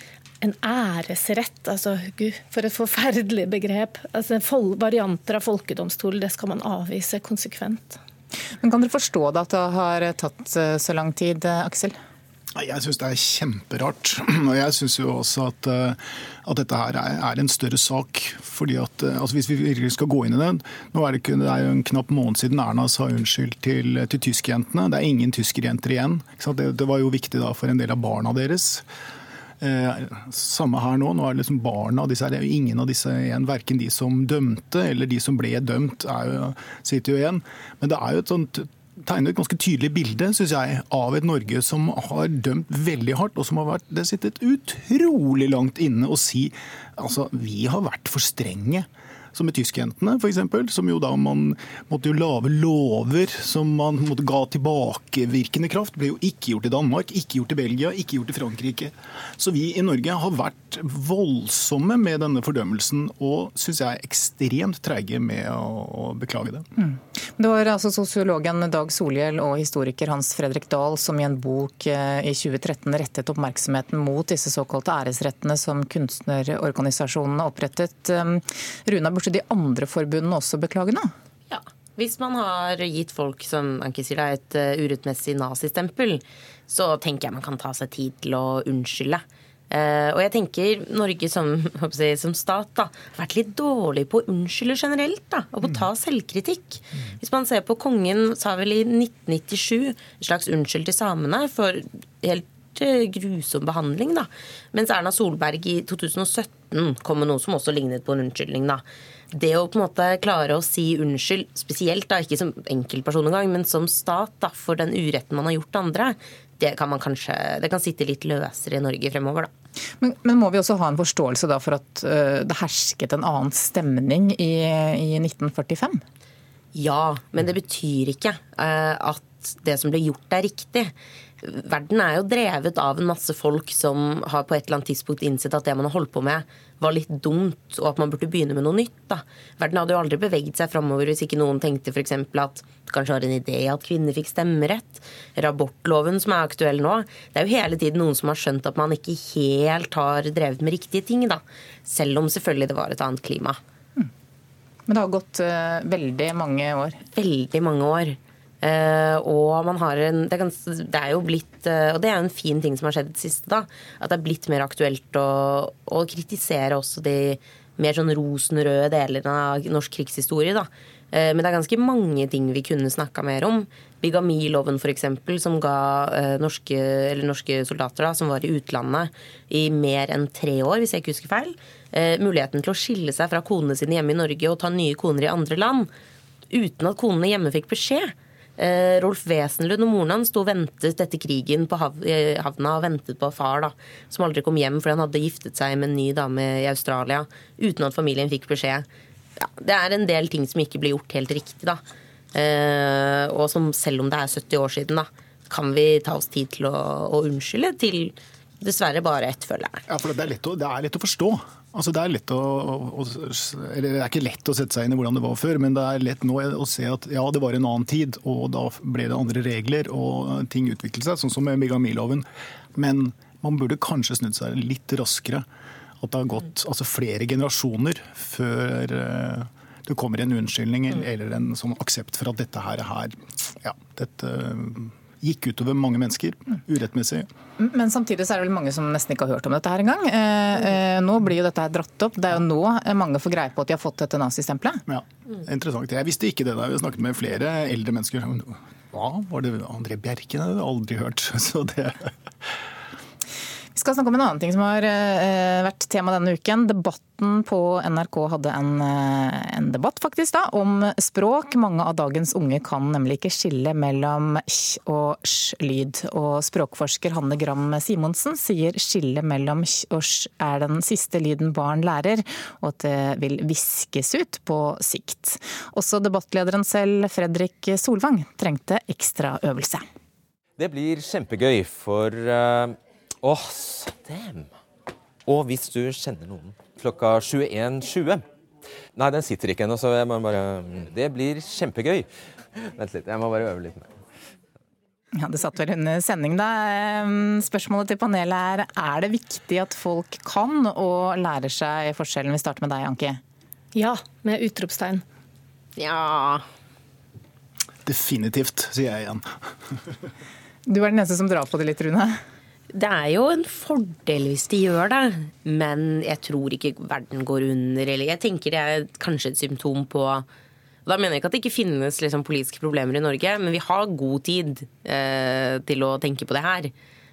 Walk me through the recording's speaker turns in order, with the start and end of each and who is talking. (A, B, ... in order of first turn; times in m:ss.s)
0:00.4-0:08.0 A
0:08.6-0:11.9 B
0:12.5-0:28.8 C
0:29.6-1:06.6 C
1:06.8-1:21.1 B
1:21.5-1:59.5 D
2:00.0-2:06.0 B
2:06.7-2:33.6 D
2:34.9-2:37.0 B
2:37.1-3:05.9 D
3:06.5-3:18.8 D
3:19.4-3:21.8 D
3:22.3-3:29.8 D
3:29.9-3:42.2 C
3:42.8-3:45.4 C
3:46.0-3:57.3 C
3:57.6-4:04.8 B
4:04.9-4:12.1 C
4:13.7-4:39.8 B
4:40.6-4:44.5 E
4:45.2-4:48.2 E
4:49.0-4:53.9 E
4:55.2-5:03.2 B
5:03.7-5:05.0 A
5:05.8-5:06.4 D
5:07.8-5:09.2 C
5:10.7-5:12.2 B
5:12.7-5:20.2 D
5:20.8-5:26.7 D